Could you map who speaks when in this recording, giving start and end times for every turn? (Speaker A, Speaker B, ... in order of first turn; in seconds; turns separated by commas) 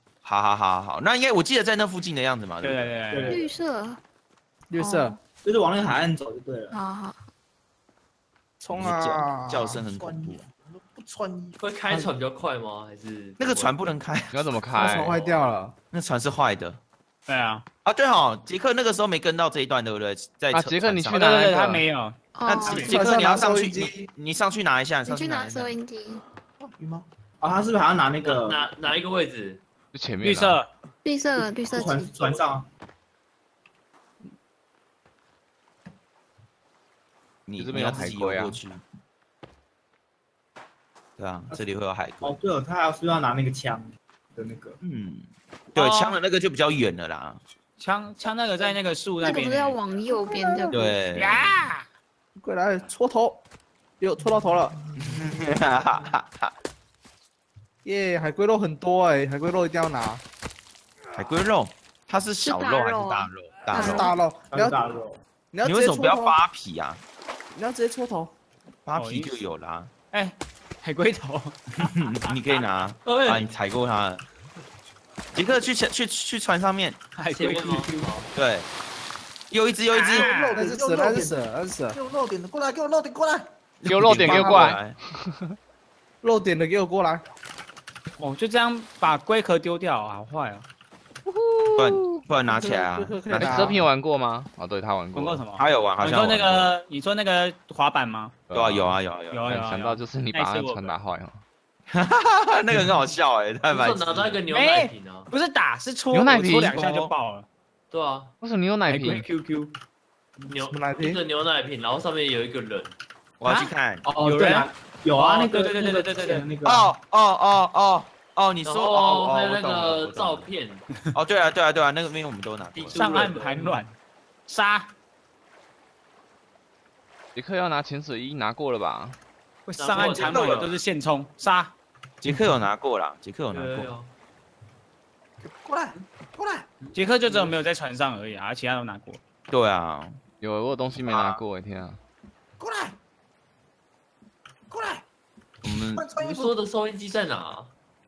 Speaker A: 0.2-3.1, Speaker B: 2.6-3.4, Speaker C: 3.1-3.4, Speaker D: 3.3-4.0, Speaker E: 4.7-5.2, Speaker D: 4.7-5.2, Speaker C: 5.4-6.7, Speaker D: 6.7-7.2, Speaker E: 8.6-9.8, Speaker A: 8.7-10.4, Speaker F: 9.8-11.6, Speaker G: 11.6-13.8, Speaker A: 13.4-15.0, Speaker H: 14.3-15.2, Speaker E: 14.8-15.7, Speaker A: 15.9-16.8, Speaker B: 17.3-17.6, Speaker A: 17.8-21.4, Speaker H: 20.5-21.8, Speaker B: 21.1-22.1, Speaker D: 22.3-22.9, Speaker A: 22.4-25.8, Speaker C: 22.6-23.1, Speaker E: 22.8-24.1, Speaker D: 25.1-26.2, Speaker F: 26.6-27.1, Speaker C: 27.4-28.7, Speaker G: 28.2-29.6, Speaker H: 29.9-30.6, Speaker B: 30.2-30.7, Speaker D: 31.0-32.1, Speaker C: 31.4-32.7, Speaker A: 37.5-38.8, Speaker H: 37.6-38.6, Speaker A: 41.2-42.4, Speaker C: 42.2-44.8, Speaker A: 44.8-47.4, Speaker B: 45.8-46.2, Speaker B: 47.8-49.8, Speaker D: 49.2-51.0, Speaker E: 50.3-50.9, Speaker A: 50.7-51.5, Speaker B: 51.1-51.8, Speaker E: 52.4-53.4, Speaker E: 54.0-54.8, Speaker A: 55.0-56.5, Speaker E: 57.8-60.2, Speaker A: 61.1-64.1, Speaker D: 62.4-64.2, Speaker E: 63.8-64.8, Speaker C: 64.5-65.2, Speaker E: 65.5-66.4, Speaker A: 65.6-67.0, Speaker E: 67.5-68.3, Speaker A: 68.8-69.9, Speaker B: 69.0-69.4, Speaker B: 70.1-71.5, Speaker A: 71.8-74.2, Speaker G: 73.0-73.5, Speaker A: 75.3-77.0, Speaker B: 77.2-77.9, Speaker G: 77.3-78.2, Speaker A: 78.3-78.7, Speaker A: 79.5-80.3, Speaker B: 79.9-80.6, Speaker F: 80.1-83.5, Speaker E: 80.5-82.0, Speaker A: 83.8-85.0, Speaker H: 83.9-85.6, Speaker E: 84.2-84.7, Speaker E: 86.2-87.2, Speaker B: 88.2-90.6, Speaker H: 91.3-92.2, Speaker A: 91.8-93.9, Speaker E: 92.5-93.9, Speaker H: 93.3-95.5, Speaker B: 95.1-98.3, Speaker A: 95.5-96.8, Speaker H: 98.5-101.4, Speaker A: 98.5-99.6, Speaker B: 99.3-100.9, Speaker A: 101.9-104.4, Speaker G: 103.7-105.3, Speaker B: 104.5-107.5, Speaker H: 106.1-106.7, Speaker A: 106.7-107.1, Speaker G: 107.9-108.3, Speaker H: 108.4-109.2, Speaker B: 108.9-109.7, Speaker G: 110.5-112.9, Speaker E: 110.6-111.2, Speaker A: 113.4-114.1, Speaker B: 113.4-113.8, Speaker C: 114.0-116.9, Speaker B: 114.3-116.4, Speaker A: 116.6-120.5, Speaker G: 118.6-120.8, Speaker A: 121.1-123.1, Speaker G: 122.7-123.8, Speaker B: 122.9-123.9, Speaker B: 124.5-124.9, Speaker H: 127.3-129.2, Speaker B: 129.7-131.7, Speaker G: 129.8-130.7, Speaker A: 130.3-130.7, Speaker A: 132.2-133.9, Speaker G: 133.5-134.1, Speaker F: 135.4-136.7, Speaker G: 136.8-137.5, Speaker B: 136.9-139.2, Speaker A: 139.5-140.2, Speaker H: 140.4-142.0, Speaker A: 141.1-141.4, Speaker F: 142.6-142.9, Speaker F: 144.7-145.0, Speaker A: 145.6-146.1, Speaker F: 145.7-146.6, Speaker G: 146.2-147.7